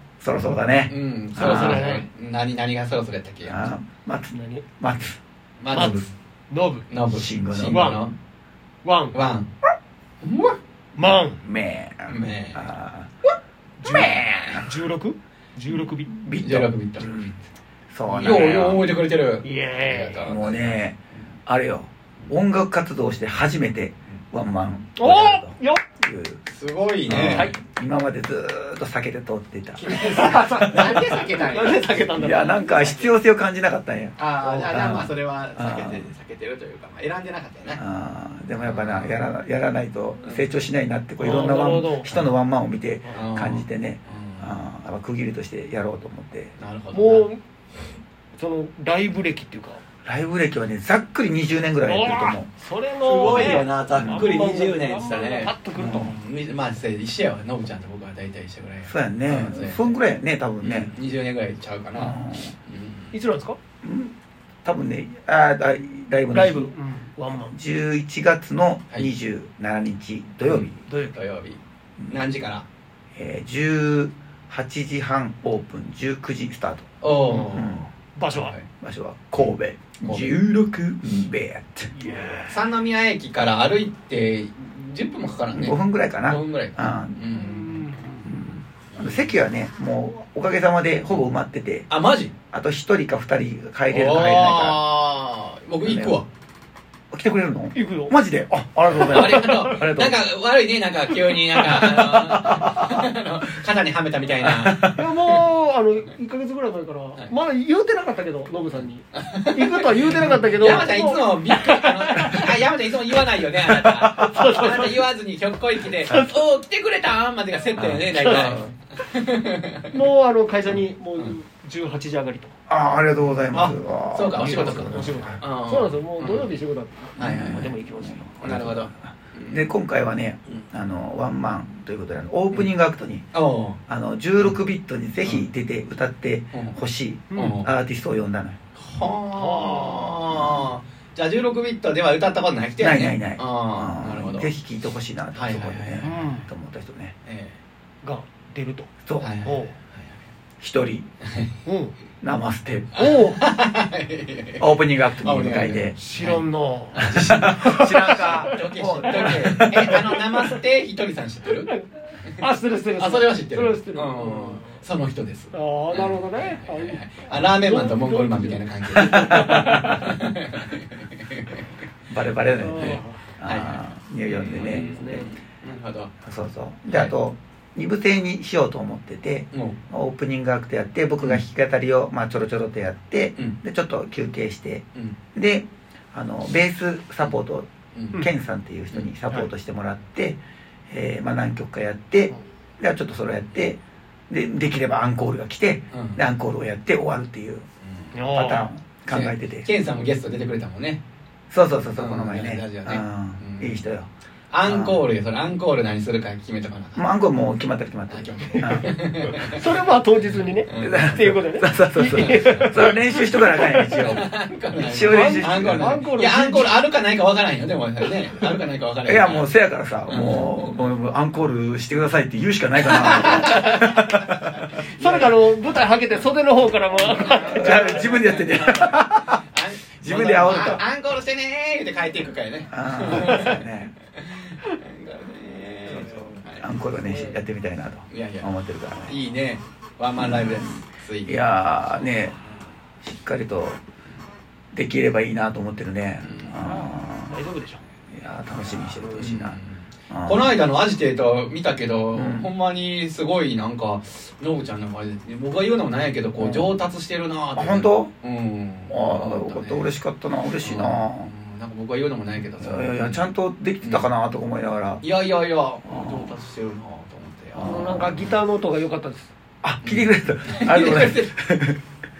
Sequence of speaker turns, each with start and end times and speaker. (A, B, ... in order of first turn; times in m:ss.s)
0:00.2-0:01.8 A
0:00.9-0:03.7 B
0:01.4-0:02.0 C
0:03.4-0:05.2 A
0:04.3-0:04.8 C
0:05.6-0:06.1 B
0:05.7-0:06.9 C
0:05.7-0:06.0 A
0:06.9-0:08.1 B
0:07.1-0:07.9 A
0:07.6-0:08.1 C
0:08.8-0:09.2 C
0:09.1-0:09.5 B
0:10.2-0:10.6 B
0:10.9-0:11.4 C
0:11.4-0:13.1 A
0:12.0-0:12.7 B
0:13.8-0:16.2 C
0:13.8-0:14.6 A
0:13.9-0:14.6 B
0:16.1-0:17.4 A
0:16.4-0:17.3 B
0:17.9-0:18.8 A
0:18.1-0:21.3 B
0:19.4-0:20.3 C
0:20.2-0:26.4 A
0:25.0-0:25.8 C
0:26.5-0:27.5 B
0:27.1-0:31.2 A
0:27.1-0:27.6 C
0:29.8-0:32.0 B
0:30.0-0:33.1 C
0:32.2-0:36.1 A
0:34.2-0:37.8 B
0:37.8-0:46.5 A
0:38.6-0:39.2 B
0:40.2-0:40.5 B
0:41.2-0:42.3 C
0:43.1-0:44.7 B
0:46.6-0:47.3 B
0:46.9-0:47.4 C
0:48.3-0:49.8 C
0:50.0-0:52.5 A
0:51.8-0:56.1 C
0:53.0-1:00.0 B
0:53.3-0:54.3 A
0:55.7-0:56.2 A
0:58.8-1:00.9 A
1:00.6-1:03.2 B
1:01.9-1:02.5 A
1:03.1-1:03.6 C
1:03.8-1:06.7 A
1:06.3-1:07.5 C
1:07.3-1:10.8 A
1:10.4-1:12.7 B
1:10.9-1:11.1 C
1:12.0-1:12.3 A
1:13.1-1:16.9 A
1:17.0-1:18.6 B
1:17.3-1:17.6 C
1:17.5-1:17.9 A
1:18.1-1:18.5 C
1:18.7-1:22.1 A
1:20.0-1:20.4 B
1:21.9-1:22.6 C
1:22.5-1:27.8 B
1:25.5-1:27.3 A
1:27.3-1:28.3 C
1:28.2-1:31.9 A
1:28.9-1:29.4 B
1:31.9-1:32.3 B
1:32.5-1:34.8 A
1:33.9-1:36.3 B
1:35.8-1:36.2 A
1:37.1-1:40.2 A
1:37.7-1:38.2 C
1:38.8-1:40.0 C
1:39.0-1:45.4 B
1:41.6-1:43.0 A
1:44.4-1:44.9 A
1:44.9-1:52.4 C
1:48.8-1:59.8 B
1:50.3-1:50.8 A
1:52.2-1:52.5 A
1:53.7-1:54.4 A
1:54.2-1:55.0 C
1:56.1-1:56.3 C
1:57.8-1:58.7 A
1:58.1-1:58.6 C
1:59.9-2:02.5 C
2:00.7-2:01.3 B
2:02.7-2:05.4 A
2:03.5-2:06.5 B
2:04.4-2:08.3 C
2:07.2-2:07.7 B
2:07.2-2:13.3 A
2:08.4-2:09.7 B
2:13.3-2:13.8 B
2:13.9-2:18.6 A
2:16.5-2:16.8 B
2:17.3-2:17.6 C
2:17.4-2:17.7 B
2:18.7-2:24.5 B
2:19.3-2:20.2 C
2:20.4-2:20.7 A
2:22.8-2:27.1 A
2:25.3-2:26.2 B
2:26.0-2:26.5 C
2:27.2-2:27.6 B
2:28.0-2:29.7 C
2:29.0-2:29.3 A
2:29.2-2:30.2 B
2:30.6-2:31.1 A
2:31.2-2:31.5 B
2:31.6-2:31.9 C
2:32.2-2:33.0 A
2:32.9-2:33.4 C
2:32.9-2:34.6 B
2:34.6-2:35.9 A
2:35.2-2:41.7 B
2:36.0-2:39.4 C
2:37.0-2:40.2 A
2:41.6-2:44.8 C
2:43.0-2:51.7 B
2:45.5-2:50.2 C
2:49.0-2:49.9 A
2:52.1-2:54.9 A
2:52.4-2:53.2 C
2:52.8-2:56.1 B
2:54.5-2:55.3 C
2:56.2-3:17.6 A
2:56.9-2:57.1 B
2:59.5-2:59.8 B
3:07.9-3:08.3 B
3:15.9-3:16.2 B
3:17.8-3:18.2 B
3:18.1-3:18.7 C
3:18.3-3:19.7 A
3:19.1-3:21.0 B
3:21.5-3:24.1 A
3:21.9-3:23.9 B
3:24.5-3:27.0 B
3:24.6-3:25.0 A
3:27.0-3:29.4 A
3:28.1-3:29.6 B
3:29.4-3:34.1 C
3:30.2-3:31.4 B
3:30.8-3:35.8 A
3:32.1-3:32.8 B
3:33.8-3:39.5 B
3:35.0-3:36.8 C
3:39.0-3:45.3 A
3:40.1-3:41.0 B
3:42.8-3:45.7 B
3:45.0-3:48.1 C
3:47.0-3:56.9 B
3:47.2-3:49.4 A
3:50.0-3:50.8 A
3:52.7-3:53.9 A
3:53.2-3:53.5 C
3:55.9-3:59.2 A
3:57.0-3:57.4 C
3:58.1-3:58.5 B
3:59.0-4:01.4 B
4:00.2-4:02.4 A
4:03.0-4:03.8 A
4:04.7-4:07.4 A
4:06.2-4:06.8 B
4:07.3-4:07.8 C
4:08.1-4:09.6 A
4:09.0-4:19.9 B
4:10.1-4:10.6 A
4:12.1-4:12.5 A
4:16.4-4:16.7 A
4:17.6-4:18.1 A
4:18.9-4:21.3 A
4:20.6-4:23.3 B
4:22.6-4:25.0 A
4:23.8-4:24.1 B
4:25.0-4:27.9 B
4:25.8-4:26.4 A
4:27.5-4:28.4 A
4:27.6-4:29.3 C
4:29.6-4:31.8 A
4:29.8-4:31.3 B